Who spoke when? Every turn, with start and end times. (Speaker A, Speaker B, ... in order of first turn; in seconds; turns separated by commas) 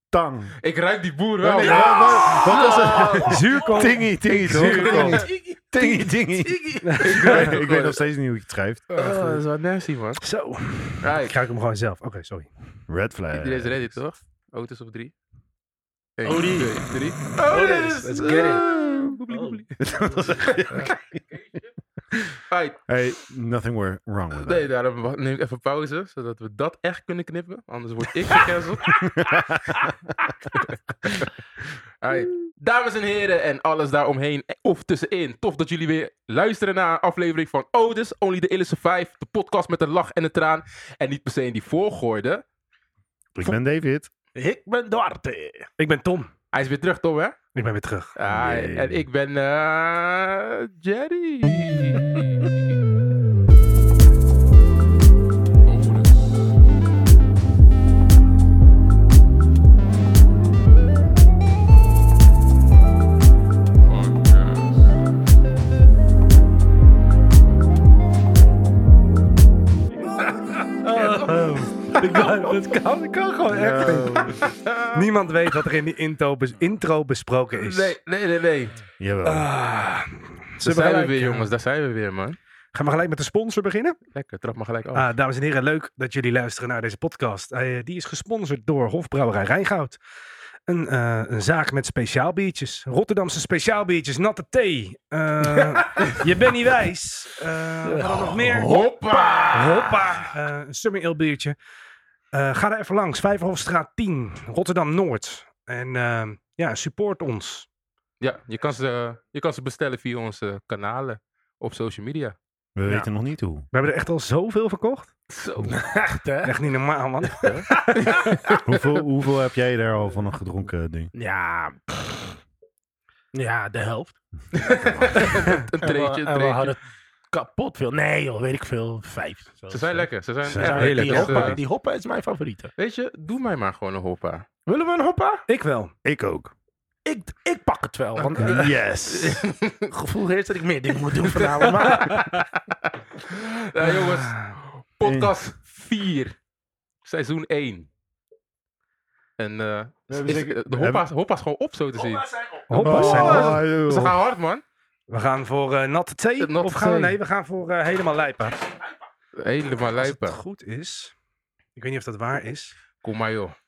Speaker A: 0.1-0.5, Speaker B: 0.6-3.2, Speaker A: 1.4-6.6, Speaker C: 1.5-3.9, Speaker D: 2.4-5.3, Speaker B: 4.5-5.2, Speaker C: 4.6-7.5, Speaker D: 6.8-7.5, Speaker B: 7.0-8.0, Speaker A: 7.2-8.9, Speaker B: 8.9-10.2, Speaker D: 10.2-12.5, Speaker B: 11.0-11.3, Speaker A: 12.9-13.9, Speaker B: 13.3-15.1, Speaker B: 16.2-20.9, Speaker C: 16.2-18.6, Speaker A: 18.4-19.1, Speaker C: 19.3-19.6, Speaker A: 19.8-20.9, Speaker C: 20.5-20.9, Speaker B: 22.5-22.8, Speaker A: 22.9-24.7, Speaker B: 24.4-29.0, Speaker C: 28.9-29.9, Speaker A: 29.1-29.8, Speaker B: 30.5-31.2, Speaker B: 32.0-42.4, Speaker A: 43.3-44.1, Speaker C: 44.3-45.7, Speaker D: 45.8-46.3, Speaker B: 46.5-47.4, Speaker D: 47.5-48.1, Speaker B: 48.1-52.5, Speaker A: 48.3-49.0, Speaker B: 55.6-56.1, Speaker B: 63.9-64.8, Speaker D: 70.7-74.4, Speaker A: 73.5-74.4, Speaker B: 73.8-75.0, Speaker D: 74.9-77.9, Speaker B: 77.5-78.8, Speaker A: 79.0-79.5, Speaker D: 79.2-81.5, Speaker B: 80.6-82.4, Speaker D: 82.7-84.0, Speaker B: 84.1-85.1, Speaker D: 84.9-90.0, Speaker D: 90.7-98.7, Speaker C: 97.8-100.0, Speaker B: 98.5-99.9, Speaker D: 99.5-101.5, Speaker D: 102.3-107.7, Speaker B: 108.2-112.3, Speaker A: 112.7-113.7, Speaker D: 113.7-115.1, Speaker B: 115.3-115.8, Speaker C: 115.6-116.5, Speaker D: 116.4-118.2, Speaker C: 117.4-118.7, Speaker A: 118.5-121.1, Speaker C: 121.1-122.4, Speaker C: 123.3-124.2, Speaker B: 124.5-126.7, Speaker A: 124.7-125.4, Speaker C: 125.8-132.7, Speaker B: 129.7-131.6, Speaker A: 130.5-130.9, Speaker D: 130.8-131.6, Speaker B: 132.8-134.4, Speaker C: 134.7-135.4, Speaker D: 135.5-135.9, Speaker A: 136.0-136.5, Speaker C: 137.1-138.7, Speaker A: 138.3-139.4, Speaker B: 139.1-139.9, Speaker C: 139.9-142.3, Speaker B: 141.3-146.3, Speaker D: 143.8-144.6, Speaker A: 145.0-145.3, Speaker B: 147.0-147.9, Speaker B: 149.4-152.2, Speaker A: 150.1-151.0, Speaker C: 151.9-153.4, Speaker D: 152.7-153.6, Speaker A: 152.7-154.2, Speaker B: 152.8-154.6, Speaker D: 155.1-158.6, Speaker B: 156.4-157.2, Speaker B: 159.3-160.4, Speaker D: 159.9-161.1, Speaker D: 161.8-162.7, Speaker B: 163.0-163.5